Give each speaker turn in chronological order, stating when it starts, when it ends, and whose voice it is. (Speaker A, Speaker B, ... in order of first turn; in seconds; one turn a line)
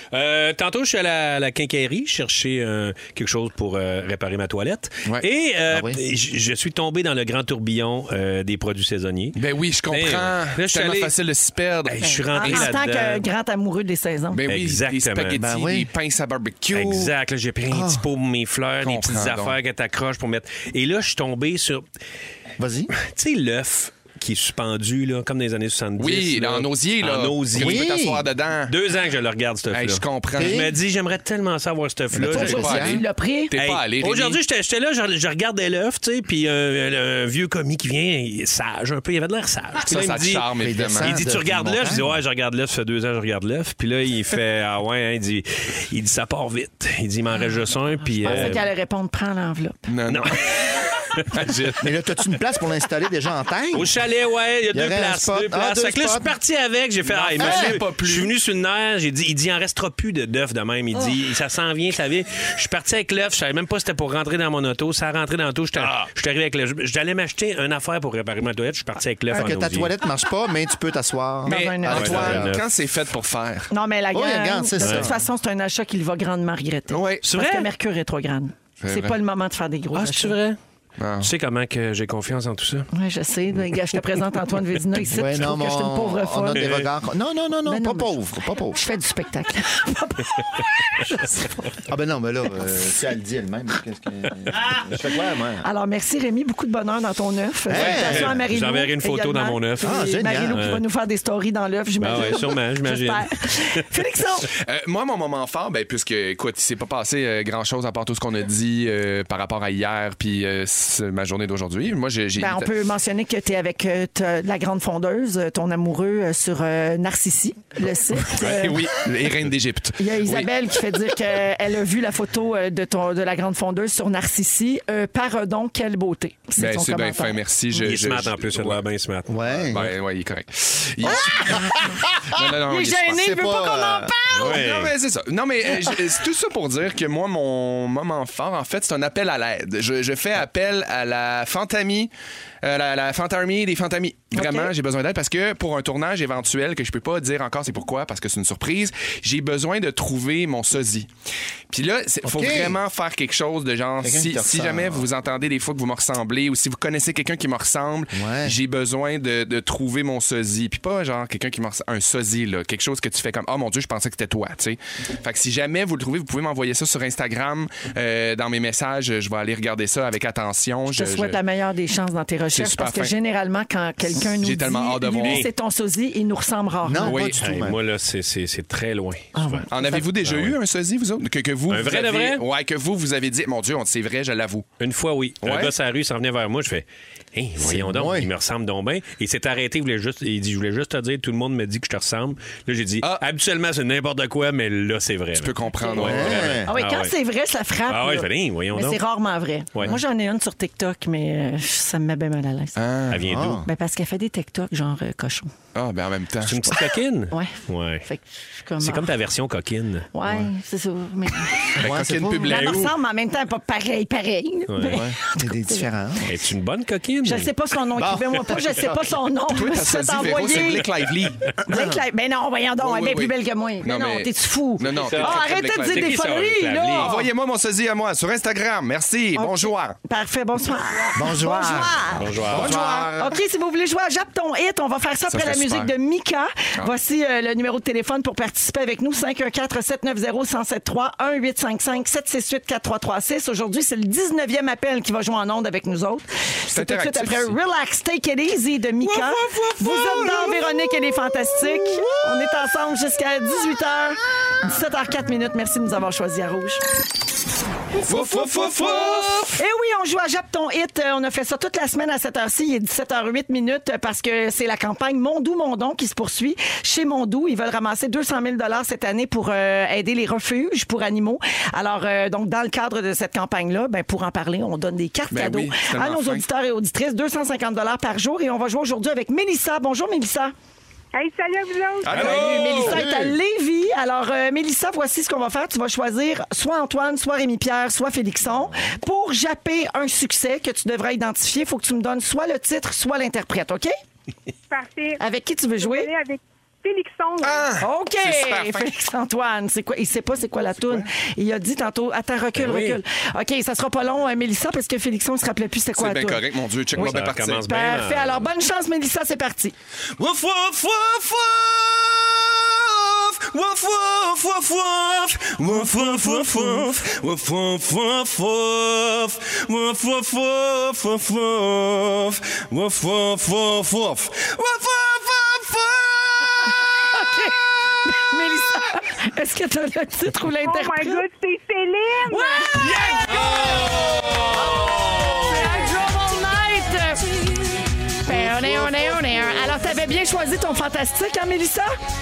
Speaker A: 0.1-9.4
Speaker B: 5.7-6.0
Speaker C: 9.3-12.7
Speaker A: 9.9-11.1
Speaker A: 11.8-13.2
Speaker D: 12.1-14.4
Speaker C: 14.3-17.1
Speaker A: 14.5-15.4
Speaker B: 15.3-15.9
Speaker A: 16.7-21.8
Speaker B: 17.7-18.0
Speaker C: 18.8-19.6
Speaker B: 22.6-22.9
Speaker A: 22.9-27.9
Speaker C: 26.0-28.7
Speaker B: 27.5-28.3
Speaker A: 28.7-32.8
Speaker C: 29.7-30.6
Speaker B: 30.4-30.8
Speaker B: 32.1-33.0
Speaker C: 32.2-34.4
Speaker D: 32.3-33.5
Speaker A: 33.5-48.6
Speaker C: 39.8-41.2
Speaker B: 40.6-42.2
Speaker D: 48.1-49.8
Speaker C: 49.9-50.7
Speaker A: 50.1-51.4
Speaker C: 51.3-51.9
Speaker B: 51.8-53.9
Speaker A: 53.7-69.9
Speaker B: 54.7-56.3
Speaker C: 57.0-58.3
Speaker B: 57.4-57.8
Speaker B: 69.3-72.5
Speaker D: 71.5-72.4
Speaker C: 71.5-73.7
Speaker A: 71.9-72.6
Speaker D: 73.7-80.4
Speaker B: 74.1-75.2
Speaker A: 74.8-75.1
Speaker C: 76.9-77.2
Speaker A: 77.2-77.7
Speaker C: 78.8-79.2
Speaker A: 79.9-80.6
Speaker C: 81.0-81.3
Speaker A: 81.2-82.9
Speaker D: 82.9-86.8
Speaker B: 85.1-88.8
Speaker A: 86.5-86.8
Speaker D: 87.6-91.8
Speaker B: 91.9-95.7
Speaker D: 95.6-104.5
Speaker B: 97.7-98.4
Speaker A: 97.7-100.8
Speaker B: 99.8-100.6
Speaker A: 102.0-103.8
Speaker C: 104.5-112.7
Speaker D: 112.4-118.8
Speaker C: 118.3-120.5
Speaker D: 120.0-127.4
Speaker C: 126.6-128.8
Speaker A: 127.8-129.9
Speaker B: 129.3-129.9
Speaker C: 129.7-133.2
Speaker B: 131.0-132.3
Speaker D: 132.7-134.6
Speaker B: 133.1-134.1
Speaker A: 134.3-134.9
Speaker C: 134.4-142.1
Speaker C: 142.6-151.1
Speaker D: 144.3-144.7
Speaker C: 151.7-171.4
Speaker B: 152.2-152.8
Speaker B: 154.0-155.1
Speaker B: 158.1-158.6
Speaker D: 170.9-177.2
Speaker C: 172.5-173.1
Speaker C: 174.2-175.5
Speaker A: 175.2-175.5
Speaker B: 176.8-177.8
Speaker C: 177.0-177.4
Speaker A: 177.3-180.6
Speaker D: 179.3-180.0
Speaker C: 179.7-184.7
Speaker A: 181.7-182.4
Speaker A: 184.8-197.1
Speaker C: 185.4-185.7
Speaker B: 187.6-188.3
Speaker C: 195.3-196.6
Speaker B: 196.0-196.7
Speaker D: 196.7-202.8
Speaker A: 197.9-199.0
Speaker C: 202.8-203.2
Speaker A: 203.1-203.6
Speaker B: 203.2-203.7
Speaker D: 203.6-205.5
Speaker C: 205.7-206.8
Speaker A: 206.4-208.0
Speaker D: 207.3-209.1
Speaker A: 208.8-210.4
Speaker D: 210.1-211.7
Speaker C: 211.7-212.9
Speaker B: 211.8-212.8
Speaker D: 212.4-215.8
Speaker A: 214.7-215.0
Speaker B: 214.9-216.4
Speaker A: 216.2-217.5
Speaker D: 217.2-220.9
Speaker B: 217.9-218.9
Speaker C: 219.5-221.6
Speaker D: 221.6-227.3
Speaker B: 221.7-222.0
Speaker C: 222.8-226.2
Speaker A: 224.9-227.1
Speaker C: 226.9-230.0
Speaker D: 229.3-232.3
Speaker B: 231.1-233.2
Speaker A: 232.2-232.8
Speaker C: 232.5-233.3
Speaker D: 233.2-256.8
Speaker C: 235.3-235.9
Speaker C: 246.7-247.6
Speaker C: 249.2-250.5
Speaker D: 258.0-280.5
Speaker C: 258.1-259.6
Speaker E: 258.2-258.9
Speaker C: 275.3-276.4
Speaker F: 281.1-282.6
Speaker C: 282.0-283.1
Speaker D: 282.1-293.9
Speaker A: 282.1-282.8
Speaker B: 282.8-283.4
Speaker F: 294.7-295.2
Speaker D: 295.2-296.1
Speaker F: 295.8-297.8
Speaker C: 297.4-298.9
Speaker D: 297.8-306.4
Speaker A: 302.6-303.0
Speaker C: 305.9-307.6
Speaker A: 306.9-308.5
Speaker D: 307.6-309.7
Speaker E: 310.2-326.5
Speaker D: 316.5-316.8
Speaker D: 327.1-331.2
Speaker F: 330.6-332.8
Speaker D: 332.3-333.6
Speaker E: 332.9-335.5
Speaker D: 335.4-337.4
Speaker D: 338.2-341.9
Speaker B: 338.3-338.9